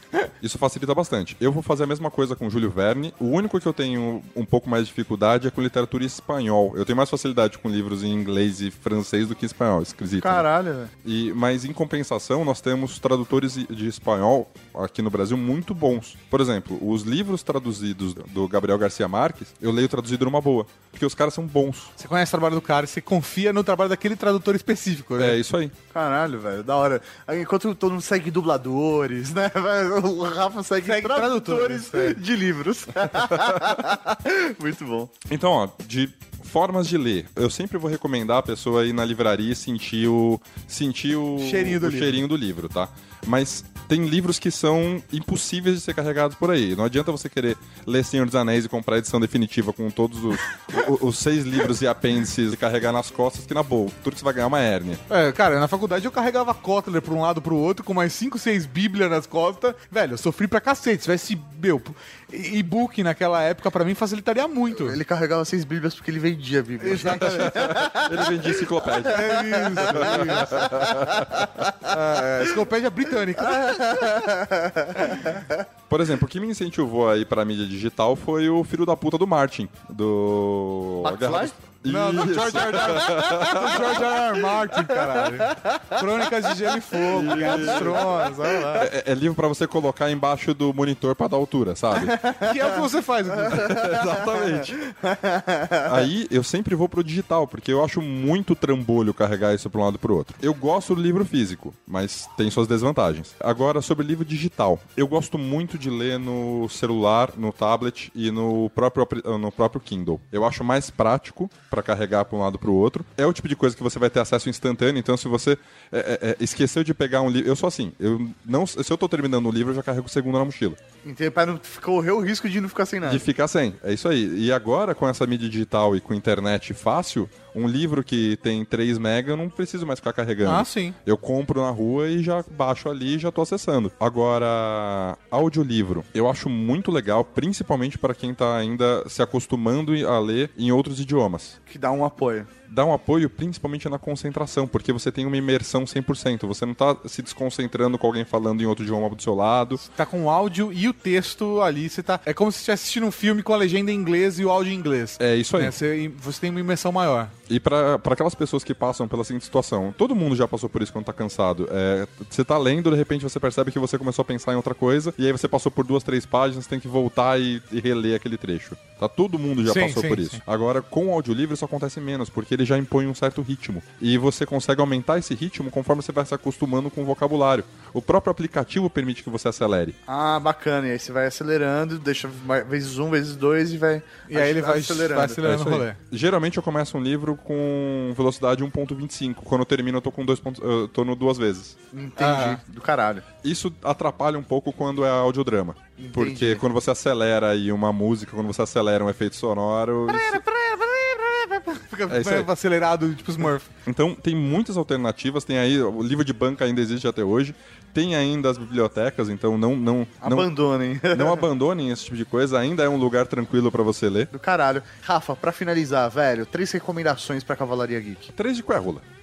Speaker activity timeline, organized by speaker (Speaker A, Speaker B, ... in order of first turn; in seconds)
Speaker A: 0.4-10.4, 11.0-21.9, 25.2-25.7, 35.3-55.0, 67.0-71.5, 75.9-83.9, 87.1-88.1, 88.8-92.2, 93.5-94.8, 95.8-120.8, 123.0-141.6, 142.7-149.8, 155.2-155.8, 157.5-179.9, 185.4-191.8, 193.4-200.4, 202.1-202.5, 203.8-210.5, 211.1-214.3, 218.3-219.0
Speaker B: 10.2-10.9, 25.9-35.1, 64.7-71.7, 73.4-75.6, 81.0-81.5, 82.8-83.7, 84.8-86.0, 87.0-88.9, 91.9-96.0, 121.0-123.2, 141.7-142.5, 180.1-185.4, 191.9-193.2, 196.0-196.6, 210.2-211.4, 214.3-218.3
Speaker C: 22.0-25.4, 30.8-32.2, 41.4-42.2, 55.1-65.0, 66.8-67.6, 69.0-70.5, 71.8-74.2, 81.8-88.8, 92.4-93.7, 130.4-130.9, 149.8-157.3, 169.6-170.4, 184.3-186.0, 192.2-192.6, 200.1-203.7